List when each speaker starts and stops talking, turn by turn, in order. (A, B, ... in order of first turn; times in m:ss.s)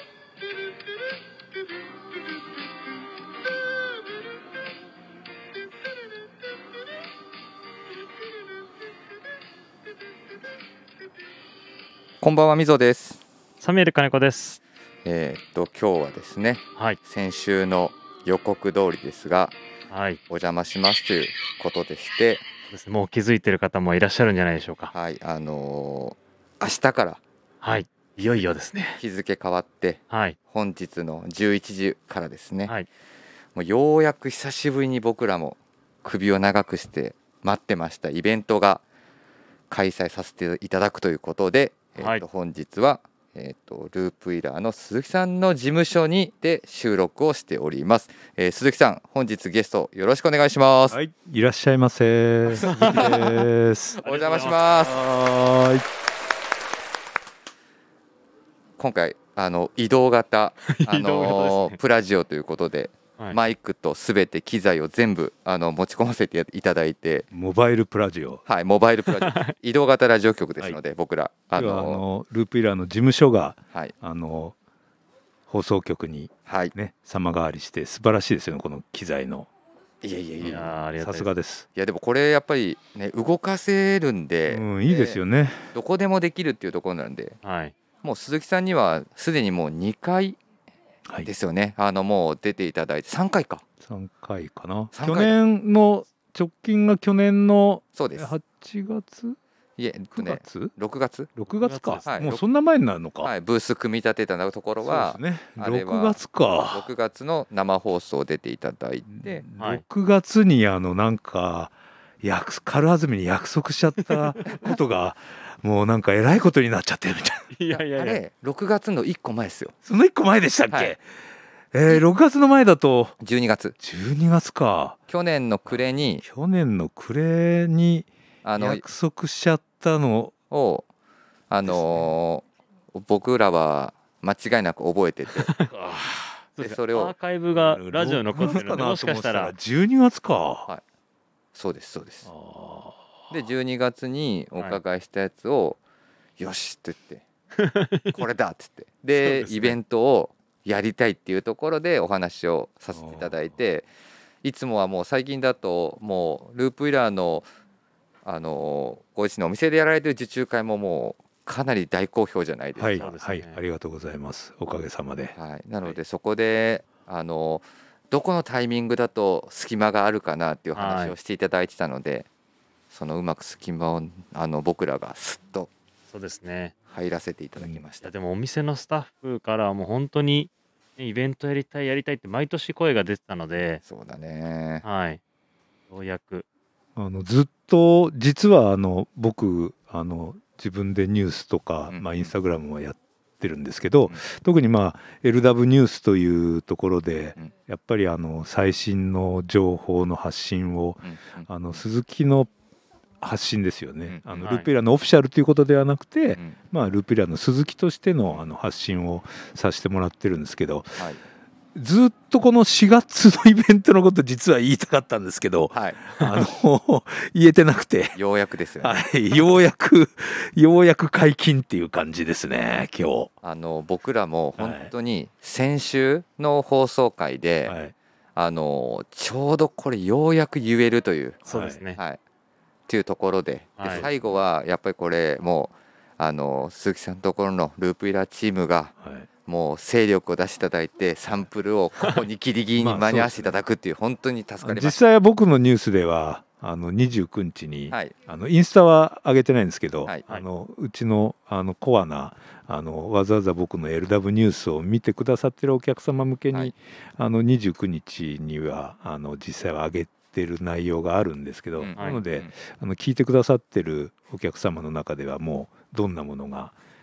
0:12.2-0:13.2 A
0:13.6-0:14.6 B
0:15.0-0:19.6 A
0:19.9-0:20.2 B
0:20.3-0:22.4 A
0:22.7-0:24.9 B
0:24.9-0:27.2 A
0:27.6-0:29.0 B
0:29.0-0:32.7 A
0:30.1-0:30.4 B
0:33.6-0:38.8 A
0:39.7-0:51.0 A
0:42.0-0:42.2 B
0:50.9-0:54.0 C
0:52.6-0:53.3 A
0:52.6-0:53.4 B
0:54.0-0:55.0 A
0:54.0-0:54.6 B
0:54.7-0:55.9 C
0:58.8-1:07.3 A
1:00.7-1:01.8 B
1:07.3-1:08.4 C
1:08.5-1:12.0 A
1:09.1-1:09.5 B
1:11.6-1:14.6 C
1:15.5-1:19.5 C
1:16.5-1:16.7 A
1:20.0-1:20.8 A
1:20.4-1:21.3 B
1:20.4-1:21.7 C
1:21.8-1:25.2 A
1:24.5-1:25.7 C
1:25.7-1:27.4 A
1:27.4-1:27.8 B
1:28.0-1:30.4 A
1:31.2-1:33.6 A
1:33.8-1:39.4 C
1:34.9-1:35.4 A
1:37.9-1:38.3 A
1:39.8-1:41.3 A
1:40.1-1:40.7 C
1:41.4-1:43.3 C
1:41.6-1:42.2 B
1:42.0-1:42.4 A
1:43.2-1:49.4 A
1:44.8-1:46.9 C
1:49.1-1:57.5 C
1:57.5-1:58.2 B
1:57.7-1:59.8 A
1:59.8-2:01.0 C
2:00.7-2:00.9 A
2:01.7-2:03.2 C
2:03.2-2:03.8 A
2:03.8-2:05.0 C
2:05.1-2:06.2 A
2:05.7-2:10.3 C
2:08.4-2:08.8 A
2:10.5-2:10.9 A
2:11.5-2:15.5 A
2:11.6-2:12.1 C
2:15.4-2:15.8 B
2:15.7-2:16.4 C
2:16.6-2:19.5 B
2:16.6-2:17.1 A
2:17.6-2:20.7 C
2:21.6-2:22.3 A
2:22.2-2:23.1 C
2:23.3-2:25.8 A
2:26.4-2:27.2 A
2:27.6-2:28.2 B
2:28.1-2:33.9 A
2:29.2-2:29.8 B
2:32.9-2:33.4 C
2:34.4-2:37.5 A
2:38.2-2:43.1 A
2:42.8-2:45.4 C
2:43.0-2:43.6 B
2:45.4-2:52.3 A
2:50.8-2:51.2 B
2:52.9-2:55.7 A
2:56.1-2:56.7 B
2:56.9-2:58.1 A
2:57.6-2:57.8 C
2:58.0-3:03.8 B
3:03.8-3:04.8 A
3:04.8-3:05.2 B
3:05.9-3:06.5 B
3:07.0-3:22.5 C
3:11.9-3:12.3 A
3:21.0-3:21.8 A
3:23.2-3:31.0 C
3:24.4-3:24.7 B
3:31.8-3:38.2 C
3:35.7-3:36.0 A
3:38.2-3:39.1 A
3:38.8-3:43.3 C
3:43.4-3:47.8 A
3:44.6-3:44.9 C
3:47.7-3:47.9 C
3:48.4-3:52.2 A
3:51.5-3:52.0 B
3:51.5-3:51.8 C
3:52.9-3:58.9 A
3:53.8-3:54.1 B
3:53.8-3:54.3 C
3:59.0-3:59.3 C
3:59.5-4:05.0 A
4:02.8-4:03.6 C
4:04.6-4:26.7 C
4:21.8-4:22.5 A
4:22.0-4:22.2 B